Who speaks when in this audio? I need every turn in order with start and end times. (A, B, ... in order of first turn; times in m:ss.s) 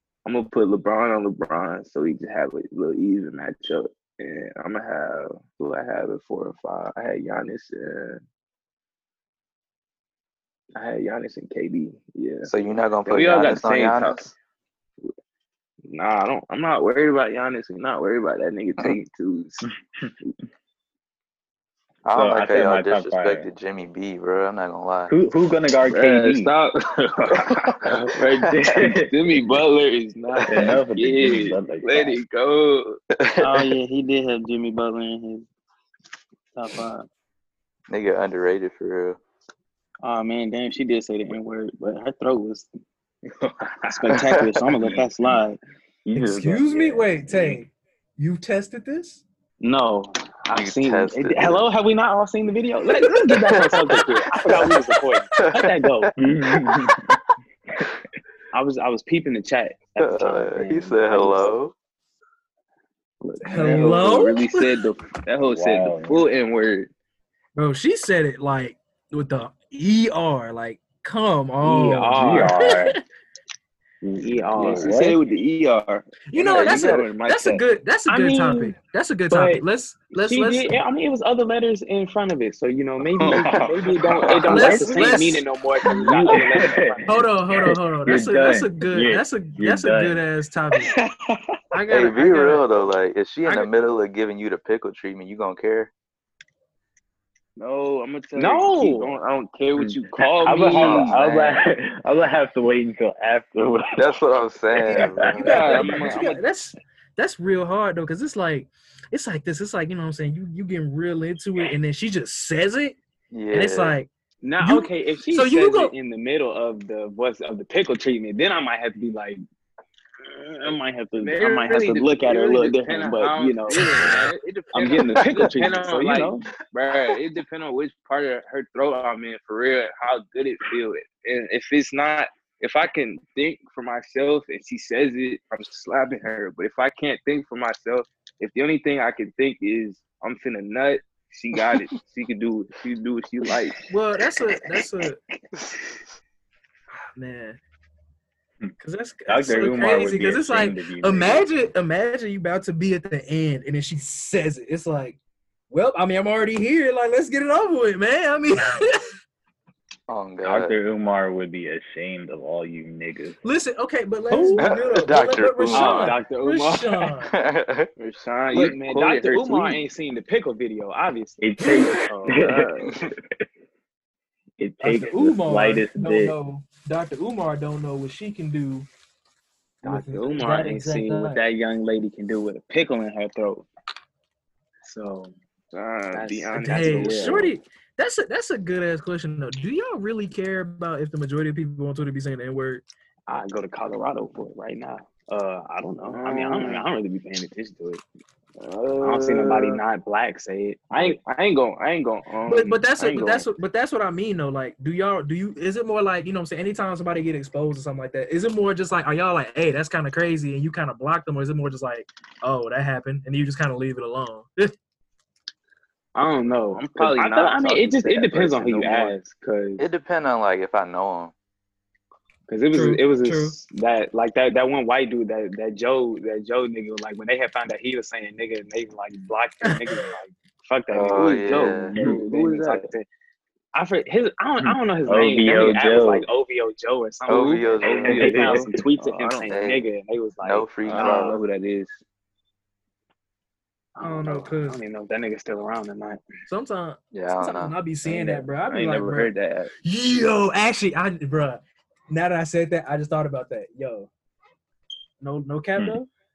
0:00.2-0:08.2 A
0:10.8-0:12.5 A
0:12.4-0:14.3 B
0:13.0-0:14.3 A
0:15.9-0:19.7 A
0:22.0-0:25.1 B
0:22.1-0:23.5 C
0:25.1-0:26.5 C
0:25.9-0:33.0 A
0:28.5-0:29.1 C
0:30.5-0:32.2 C
0:33.1-0:33.7 B
0:33.4-0:35.5 D
0:36.5-0:37.1 D
0:37.9-0:39.2 B
0:40.0-0:42.7 D
0:43.8-0:45.6 D
0:46.0-0:47.6 C
0:46.2-0:49.2 E
0:49.6-0:56.1 D
0:50.5-0:51.6 B
0:53.0-0:57.0 B
0:56.2-0:57.2 C
0:58.5-1:01.6 D
1:00.0-1:01.7 B
1:03.3-1:06.9 A
1:03.4-1:04.8 E
1:03.6-1:03.9 D
1:05.4-1:06.3 C
1:07.6-1:13.0 E
1:11.6-1:12.6 D
1:12.1-1:13.0 C
1:14.0-1:15.2 C
1:14.2-1:15.1 D
1:14.6-1:17.6 A
1:16.3-1:20.7 E
1:18.1-1:18.8 D
1:19.3-1:27.3 D
1:23.2-1:23.7 B
1:23.2-1:25.2 C
1:24.0-1:24.8 A
1:24.5-1:25.4 E
1:25.9-1:30.2 C
1:27.1-1:30.9 E
1:31.7-1:32.7 E
1:31.9-1:35.9 B
1:33.4-1:33.7 E
1:37.6-1:41.2 A
1:38.4-1:39.2 D
1:39.8-1:44.1 C
1:40.5-1:41.2 D
1:40.8-1:41.2 B
1:44.0-1:45.9 B
1:44.8-1:53.0 E
1:44.9-1:46.0 C
1:45.3-1:46.4 A
1:46.1-1:46.3 D
1:53.3-1:54.0 B
1:53.5-1:54.1 E
1:54.4-1:59.4 D
1:54.6-1:55.9 E
2:00.2-2:06.5 D
2:00.6-2:23.8 A
2:23.9-2:25.2 E
2:27.1-2:27.6 E
2:28.8-2:35.2 E
2:29.3-2:31.5 C
2:35.7-2:39.0 E
2:40.1-2:40.8 B
2:40.4-2:43.4 C
2:43.4-2:47.3 E
2:44.3-2:44.6 D
2:44.6-2:46.2 B
2:45.7-2:47.0 D
2:47.2-2:47.9 B
2:48.0-2:49.8 A
2:48.5-2:52.5 D
2:51.4-2:53.1 C
2:52.3-2:52.9 A
2:54.6-2:56.3 C
2:54.8-2:58.9 E
2:59.8-3:01.4 E
2:59.8-3:03.7 D
3:00.3-3:00.5 A
3:04.8-3:05.4 D
3:05.7-3:07.5 A
3:06.1-3:07.5 D
3:06.6-3:12.8 E
3:13.3-3:18.0 D
3:16.1-3:16.9 A
3:18.6-3:19.8 A
3:19.0-3:21.2 D
3:20.9-3:23.5 A
3:22.5-3:34.7 E
3:36.1-3:39.8 D
3:36.7-3:39.2 A
3:39.8-3:41.3 B
3:42.5-3:53.0 D
3:42.7-3:43.6 E
3:49.6-3:50.0 E
3:50.9-3:52.0 B
3:51.2-3:52.9 A
3:53.7-4:01.4 D
3:54.6-3:56.3 C
3:57.3-3:58.6 B
3:57.8-3:59.5 A
3:58.1-3:58.6 C
3:59.5-3:59.8 B
4:00.4-4:01.4 B
4:00.8-4:02.0 A
4:04.0-4:06.2 D
4:04.0-4:04.8 E
4:06.5-4:14.1 E
4:07.1-4:07.8 B
4:08.1-4:09.7 A
4:15.2-4:16.1 E